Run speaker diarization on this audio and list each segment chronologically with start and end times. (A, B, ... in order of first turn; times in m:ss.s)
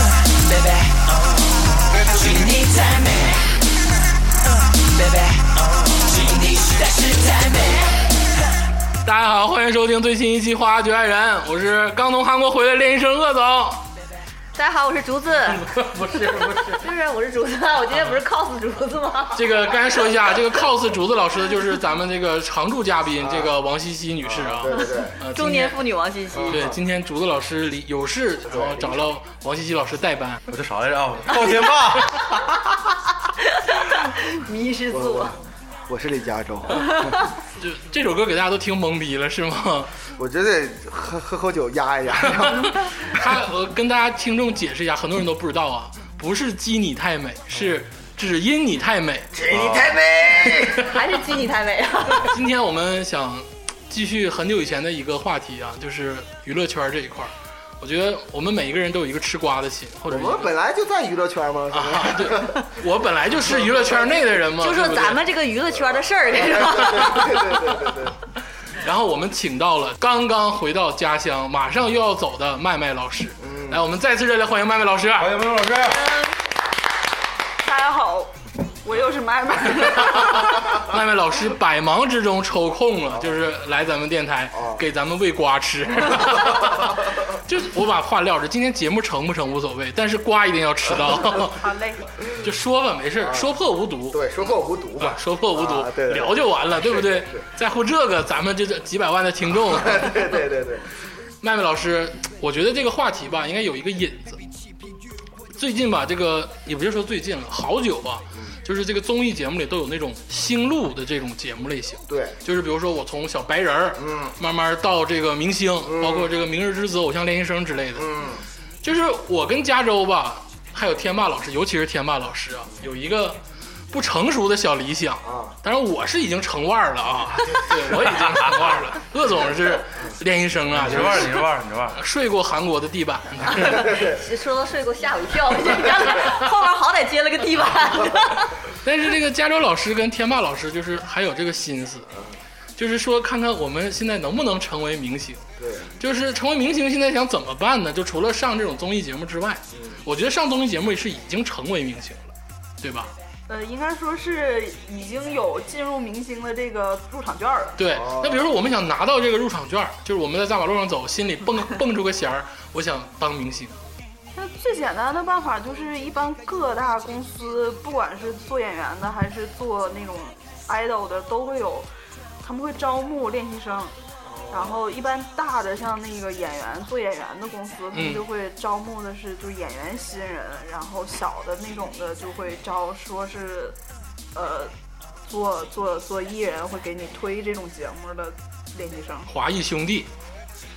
0:00.5-0:03.4 A
0:05.0-0:07.9 A
0:09.0-0:13.8 B
0:14.6-0:20.0 C
0:15.5-0:16.8 B
0:19.3-0:25.8 B
0:23.2-0:23.5 D
0:24.2-0:25.2 D
0:24.7-0:26.8 C
0:26.3-0:26.8 D
0:26.5-0:30.4 B
0:28.5-0:29.1 D
0:30.5-0:32.2 E
0:33.8-0:35.4 C
0:34.9-0:37.2 D
0:37.6-0:39.9 B
0:40.2-0:43.0 D
0:42.4-0:49.3 B
0:49.3-0:50.9 D
0:49.5-0:49.9 E
0:50.8-0:52.4 C
0:52.2-1:00.5 B
1:00.1-1:02.7 D
1:01.7-1:05.3 B
1:03.4-1:04.1 D
1:04.6-1:07.8 C
1:05.7-1:08.1 D
1:08.8-1:15.3 B
1:13.4-1:13.8 D
1:15.2-1:16.1 E
1:15.9-1:16.3 C
1:17.6-1:18.3 F
1:18.8-1:20.8 F
1:20.1-1:31.7 B
1:24.6-1:24.8 D
1:31.6-1:32.0 F
1:32.3-1:34.4 B
1:33.2-1:33.5 D
1:34.1-1:37.4 D
1:35.0-1:40.2 B
1:39.7-1:40.9 D
1:41.4-1:44.4 B
1:45.5-1:58.1 B
1:52.1-1:52.4 D
1:54.0-1:54.4 D
1:55.8-1:56.3 D
1:57.9-1:58.4 D
1:58.8-2:03.4 B
2:03.9-2:11.4 B
2:05.2-2:05.6 D
2:10.8-2:12.0 E
2:11.9-2:13.9 B
2:13.5-2:18.6 C
2:13.6-2:14.2 D
2:18.8-2:22.1 B
2:22.8-2:25.4 B
2:25.6-2:26.0 D
2:26.0-2:32.3 B
2:29.7-2:30.0 D
2:32.8-2:33.1 B
2:33.5-2:37.8 F
2:37.8-2:43.7 B
2:37.9-2:38.5 D
2:44.3-2:51.9 F
2:52.4-2:54.0 F
2:54.3-2:54.8 D
2:54.5-3:03.8 F
2:57.9-2:58.2 B
3:04.3-3:04.7 F
3:05.3-3:09.3 F
3:09.3-3:10.1 B